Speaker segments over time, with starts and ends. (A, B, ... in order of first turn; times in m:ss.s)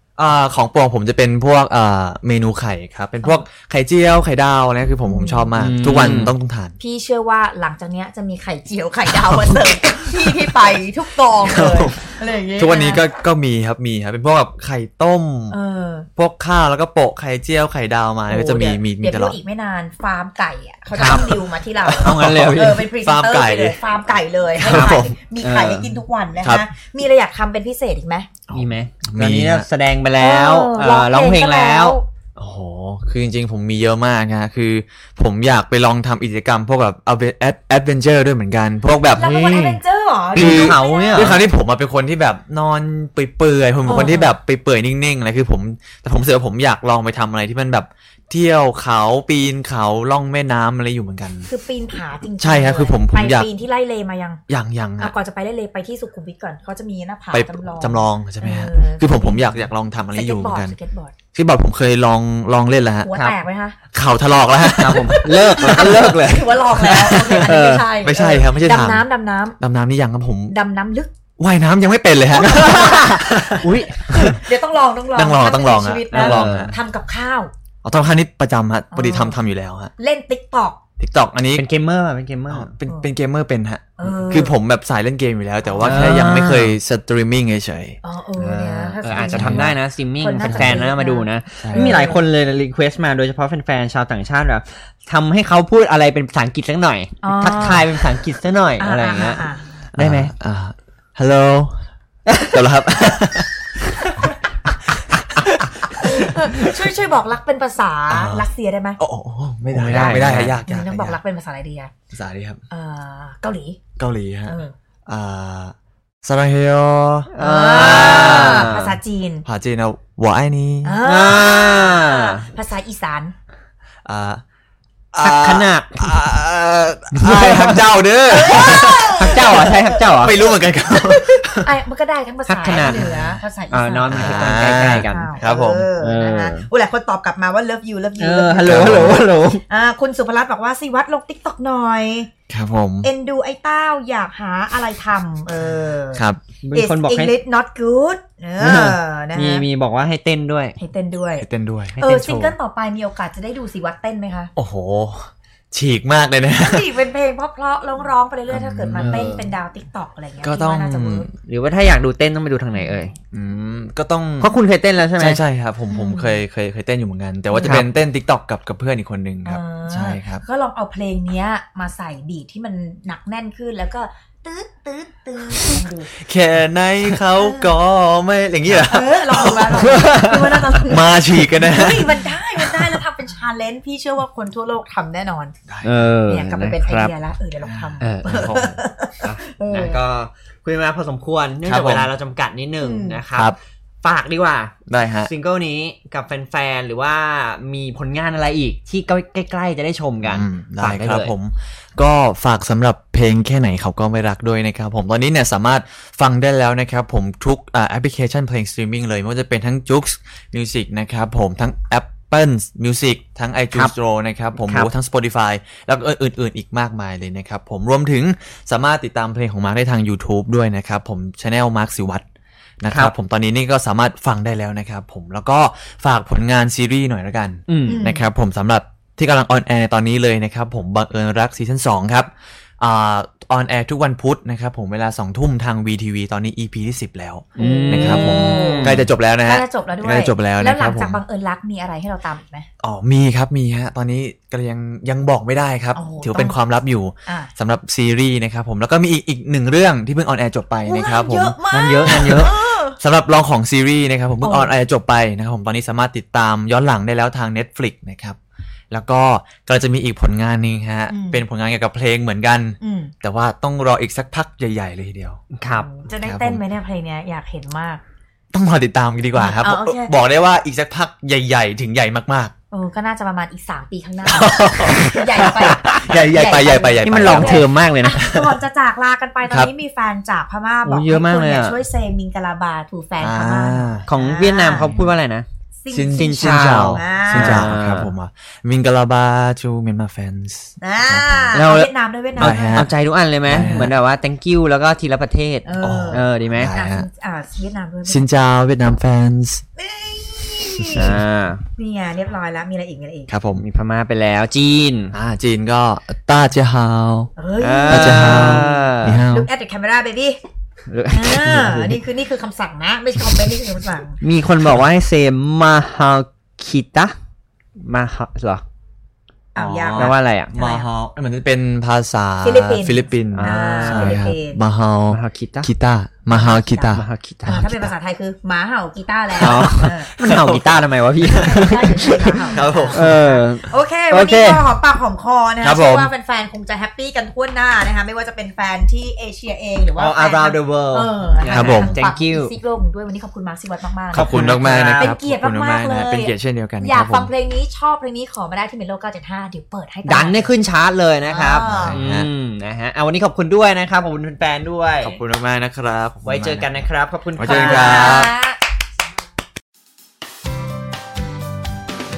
0:00.2-0:06.8 A
0:05.0-0:05.5 B
0:05.6-0:06.3 C
0:06.8-0:13.0 B
0:09.1-0:09.7 A
0:11.4-0:12.0 A
0:12.6-0:15.6 A
0:15.5-0:16.1 B
0:16.2-0:19.4 A
0:18.3-0:28.3 B
0:20.9-0:21.4 C
0:21.8-0:23.8 A
0:22.0-0:22.9 C
0:24.5-0:25.1 A
0:24.7-0:25.9 C
0:26.4-0:26.7 A
0:28.5-0:29.7 A
0:28.5-0:32.0 C
0:30.2-0:32.1 B
0:32.4-0:39.3 A
0:39.1-0:39.8 C
0:39.1-0:41.5 B
0:40.3-0:41.4 C
0:40.3-0:51.5 A
0:43.8-0:44.3 B
0:51.5-0:54.4 B
0:52.4-0:53.5 A
0:54.5-0:55.1 A
0:55.0-1:01.1 B
0:57.3-1:00.8 A
1:01.3-1:03.1 A
1:03.0-1:03.8 B
1:03.9-1:06.1 A
1:04.8-1:07.9 C
1:05.4-1:09.6 B
1:07.1-1:07.4 A
1:08.0-1:09.1 A
1:09.6-1:10.5 A
1:10.5-1:11.1 B
1:11.4-1:14.4 A
1:12.4-1:14.3 C
1:12.4-1:13.4 B
1:14.1-1:17.5 B
1:15.1-1:16.7 A
1:16.1-1:16.7 C
1:17.8-1:19.9 A
1:18.9-1:19.4 B
1:20.0-1:20.8 B
1:21.0-1:21.7 A
1:21.5-1:22.7 C
1:22.5-1:28.0 A
1:24.0-1:24.5 B
1:25.7-1:26.0 B
1:25.8-1:26.8 C
1:28.0-1:32.2 B
1:28.4-1:40.3 C
1:29.1-1:29.8 A
1:30.4-1:30.9 A
1:31.6-1:32.0 A
1:37.2-1:37.9 B
1:38.8-1:39.6 B
1:40.0-1:41.8 A
1:42.3-1:43.2 C
1:42.4-1:43.6 A
1:45.4-1:46.7 A
1:46.0-1:49.0 B
1:48.1-1:48.5 A
1:49.0-1:51.2 A
1:49.7-1:50.6 C
1:50.6-1:51.9 B
1:52.1-1:52.6 A
1:52.7-1:53.8 B
1:54.0-1:58.7 A
1:54.5-1:54.7 B
1:57.3-1:59.0 C
1:57.4-1:59.4 B
1:59.4-2:01.0 A
2:00.8-2:03.3 B
2:01.0-2:02.4 C
2:04.0-2:04.4 A
2:05.1-2:11.7 A
2:05.2-2:06.2 C
2:07.1-2:07.9 C
2:08.3-2:14.4 B
2:08.5-2:10.4 C
2:12.4-2:15.3 C
2:12.7-2:13.4 A
2:14.1-2:15.9 A
2:15.1-2:22.3 B
2:16.0-2:16.7 C
2:18.2-2:19.6 C
2:18.6-2:19.2 A
2:22.5-2:23.1 A
2:23.0-2:29.6 B
2:26.1-2:26.4 A
2:26.6-2:27.3 C
2:28.6-2:30.8 C
2:30.8-2:31.4 B
2:31.4-2:32.0 A
2:32.0-2:34.5 B
2:32.0-2:32.6 C
2:34.6-2:36.9 A
2:36.6-2:41.3 B
2:38.5-2:39.3 A
2:39.0-2:39.5 C
2:40.4-2:41.3 A
2:41.5-2:43.1 C
2:42.8-2:43.0 B
2:43.3-2:44.5 A
2:44.4-2:45.4 C
2:45.2-2:50.4 A
2:45.9-2:46.4 B
2:47.5-2:47.8 B
2:49.4-2:56.1 B
2:56.2-3:03.0 A
2:57.4-2:57.7 B
2:58.7-3:05.5 B
2:59.8-3:00.6 C
3:05.7-3:06.1 A
3:05.8-3:07.1 C
3:06.2-3:10.0 B
3:07.6-3:08.8 A
3:08.0-3:08.6 C
3:09.2-3:21.3 C
3:11.6-3:12.1 A
3:12.8-3:13.2 B
3:14.9-3:15.3 A
3:20.2-3:42.2 A
3:34.5-3:34.9 C
3:42.8-4:01.2 A
3:42.9-3:43.1 C
3:47.7-3:48.0 C
3:47.9-3:48.3 B
3:57.6-3:59.1 C
3:57.6-4:02.7 B
4:02.8-4:18.4 A
4:05.9-4:06.6 B
4:07.2-4:07.5 B
4:10.8-4:13.0 B
4:11.7-4:12.5 C
4:14.4-4:14.8 B
4:18.9-4:25.4 A
4:21.1-4:21.4 B
4:22.8-4:23.1 B
4:25.6-4:25.9 C
4:25.7-4:28.0 B
4:26.2-4:26.6 A
4:28.5-4:32.5 A
4:29.3-4:30.2 B
4:32.7-4:45.0 B
4:34.2-4:38.5 A
4:37.0-4:38.2 C
4:39.4-4:39.7 A
4:40.8-4:41.8 C
4:43.2-4:44.1 A
4:44.0-4:45.4 C
4:45.8-4:47.7 B
4:45.9-4:51.7 A
4:46.1-4:48.1 C
4:50.8-4:52.8 B
4:51.5-4:56.7 C
4:52.4-4:53.9 A
4:55.6-4:58.3 B
4:55.8-4:57.1 A
4:58.0-4:59.6 A
4:59.8-5:01.2 B
5:00.6-5:01.2 A
5:00.9-5:01.6 C
5:01.8-5:03.3 B
5:03.3-5:03.6 A
5:03.6-5:05.1 C
5:05.1-5:07.3 A
5:07.4-5:10.4 B
5:07.6-5:09.2 C
5:07.9-5:09.5 A
5:10.9-5:12.0 C
5:11.1-5:14.2 B
5:14.2-5:17.1 C
5:17.8-5:18.6 C
5:19.5-5:20.9 B
5:19.5-5:27.8 A
5:20.0-5:20.5 C
5:22.4-5:24.6 B
5:23.3-5:24.2 C
5:25.1-5:25.7 C
5:26.3-5:30.1 B
5:26.9-5:27.7 C
5:29.4-5:34.7 C
5:29.4-5:33.2 A
5:31.3-5:50.5 B
5:35.6-5:36.1 A
5:40.0-5:42.5 C
5:41.5-5:42.0 A
5:44.1-5:45.1 C
5:44.1-5:47.3 A
5:50.0-5:55.2 C
5:51.2-5:52.0 B
5:51.6-5:52.3 A
5:55.0-5:58.3 A
5:56.2-5:58.2 C
5:57.4-5:58.6 B